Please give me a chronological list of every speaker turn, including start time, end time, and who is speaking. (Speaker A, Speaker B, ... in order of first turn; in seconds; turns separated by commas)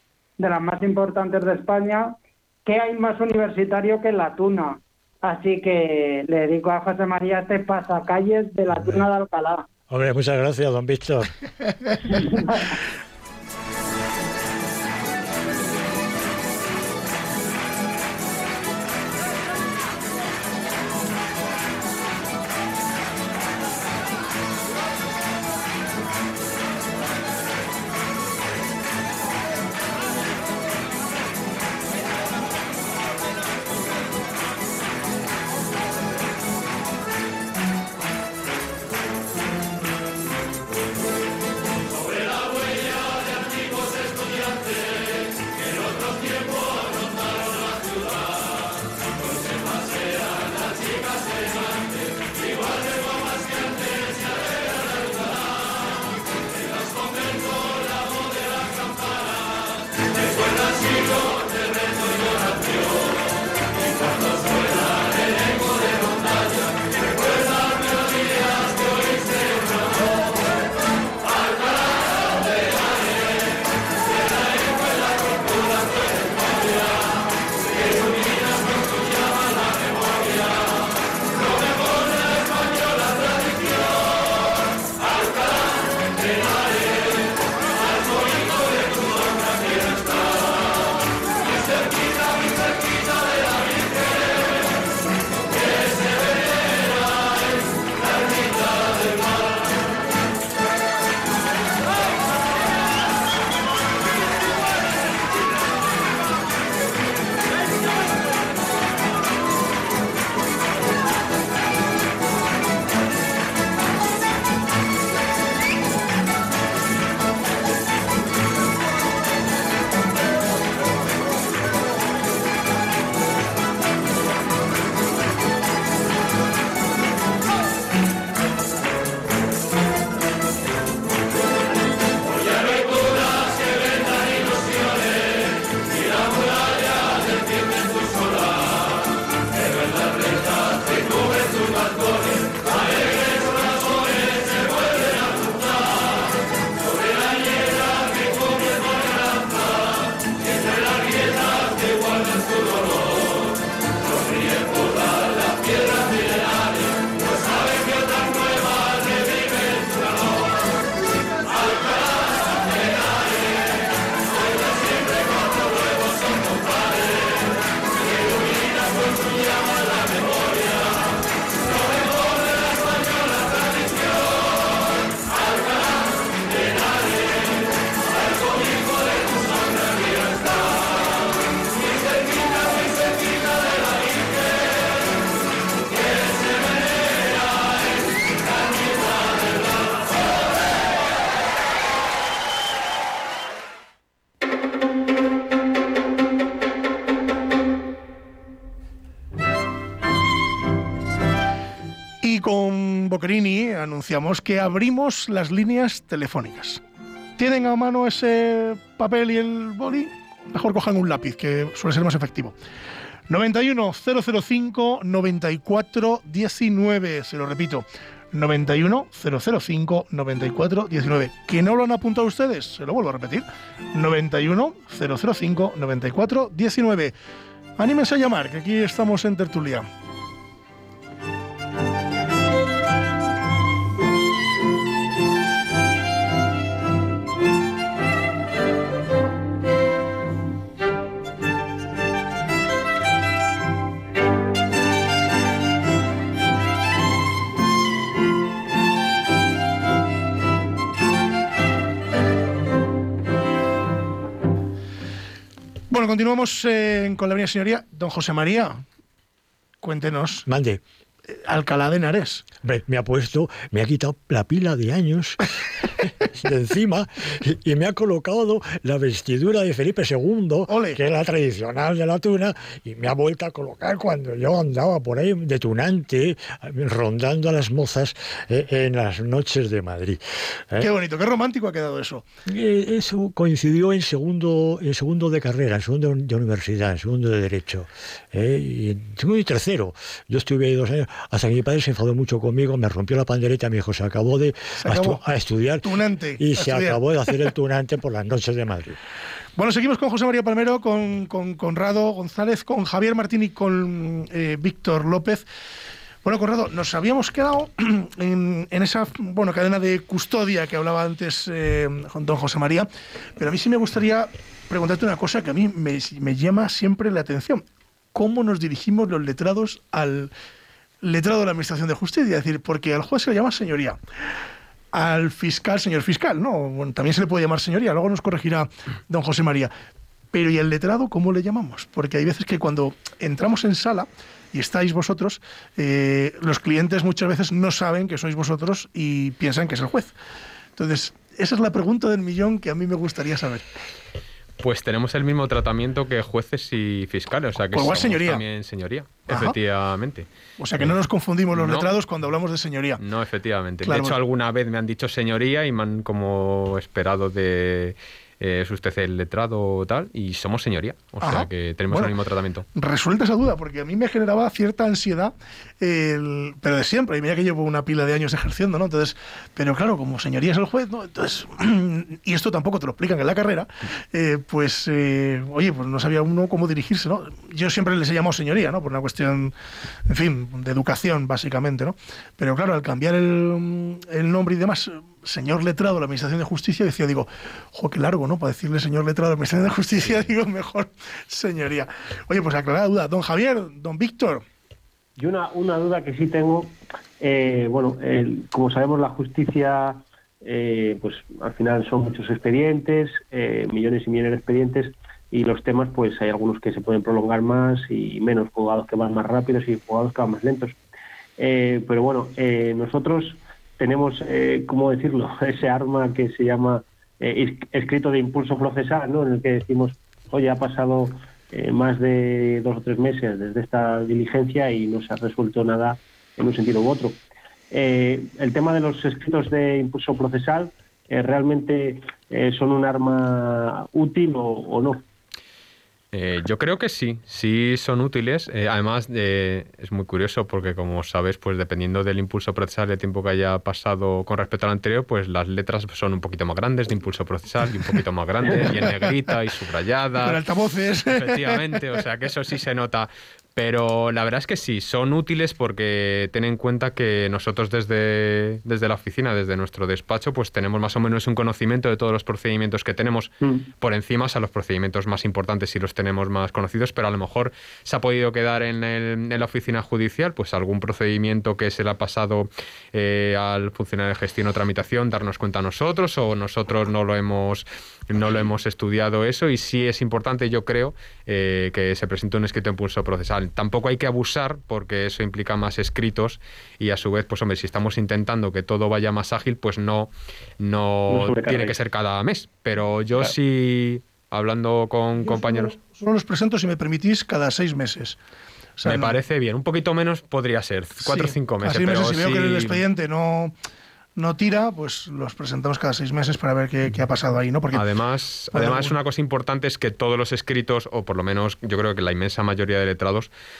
Speaker A: 0.4-9.7, Speaker B: 8.7-9.0, Speaker B: 9.9-11.3, Speaker C: 202.2-206.8, Speaker C: 207.4-212.6, Speaker C: 213.3-227.2, Speaker C: 227.8-229.9, Speaker C: 255.9-258.8, Speaker C: 259.8-260.5, Speaker B: 260.4-260.8, Speaker C: 261.3-262.4, Speaker B: 262.6-280.9, Speaker C: 270.7-271.0, Speaker C: 280.8-282.3, Speaker B: 282.4-299.0, Speaker C: 294.8-295.2, Speaker C: 295.8-297.0, Speaker C: 299.6-305.4, Speaker C: 306.2-320.3, Speaker C: 321.0-324.0, Speaker C: 324.9-329.7, Speaker C: 330.3-340.1, Speaker C: 340.8-343.6, Speaker D: 344.6-350.3, Speaker C: 347.7-348.4, Speaker C: 349.3-349.6, Speaker C: 350.6-353.0, Speaker D: 351.5-351.9, Speaker D: 353.0-362.6, Speaker C: 353.8-354.2, Speaker C: 361.2-362.1, Speaker C: 362.7-379.5, Speaker C: 380.1-394.4, Speaker E: 395.2-410.8, Speaker E: 411.4-435.1, Speaker D: 436.1-450.4, Speaker C: 450.2-451.7, Speaker D: 451.1-495.8, Speaker E: 463.4-463.7, Speaker E: 491.1-491.8, Speaker C: 495.2-498.2, Speaker C: 498.8-499.1, Speaker D: 498.9-502.8, Speaker C: 501.1-503.5, Speaker C: 504.1-507.8, Speaker D: 507.7-513.3, Speaker C: 508.5-508.9